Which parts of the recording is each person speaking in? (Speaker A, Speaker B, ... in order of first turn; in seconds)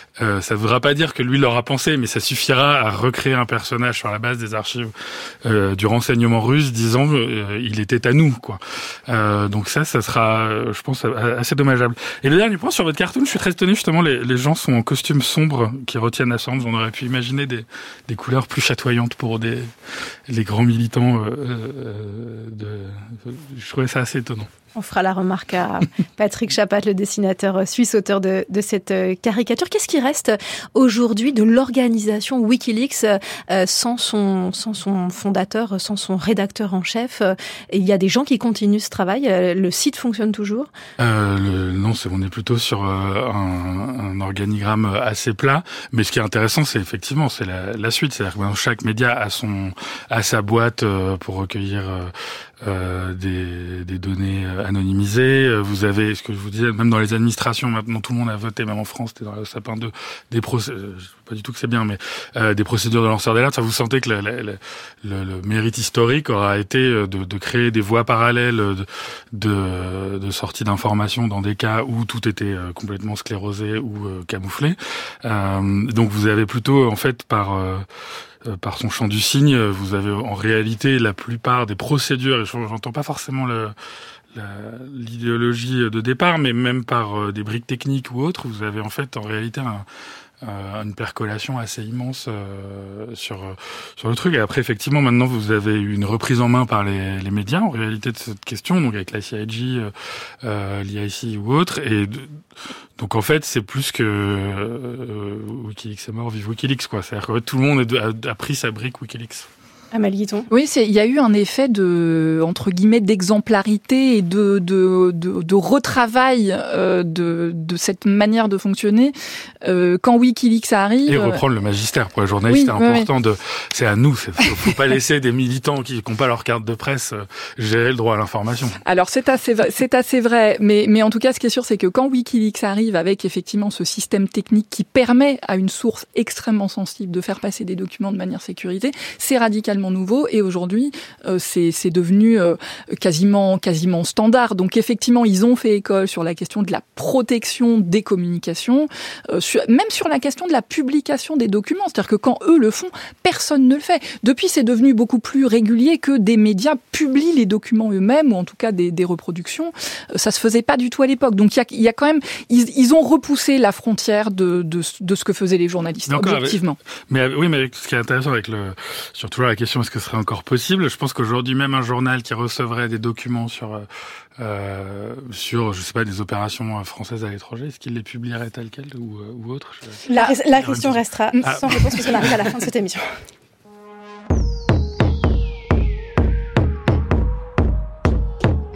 Speaker A: 0.2-4.9, 5.4-19.7, 20.3-24.5, 41.0-52.1, 52.6-77.8, 78.5-83.7, 84.3-89.8, 90.4-99.9, 100.4-102.4, 103.0-109.5, 121.1-128.8, 166.1-173.8, 174.4-180.1, 180.6-182.6
Speaker B: 24.7-40.7, 109.9-110.5, 180.1-183.1
Speaker C: 110.5-121.4, 122.5-123.1, 128.8-166.8, 180.1-180.3, 181.4-182.2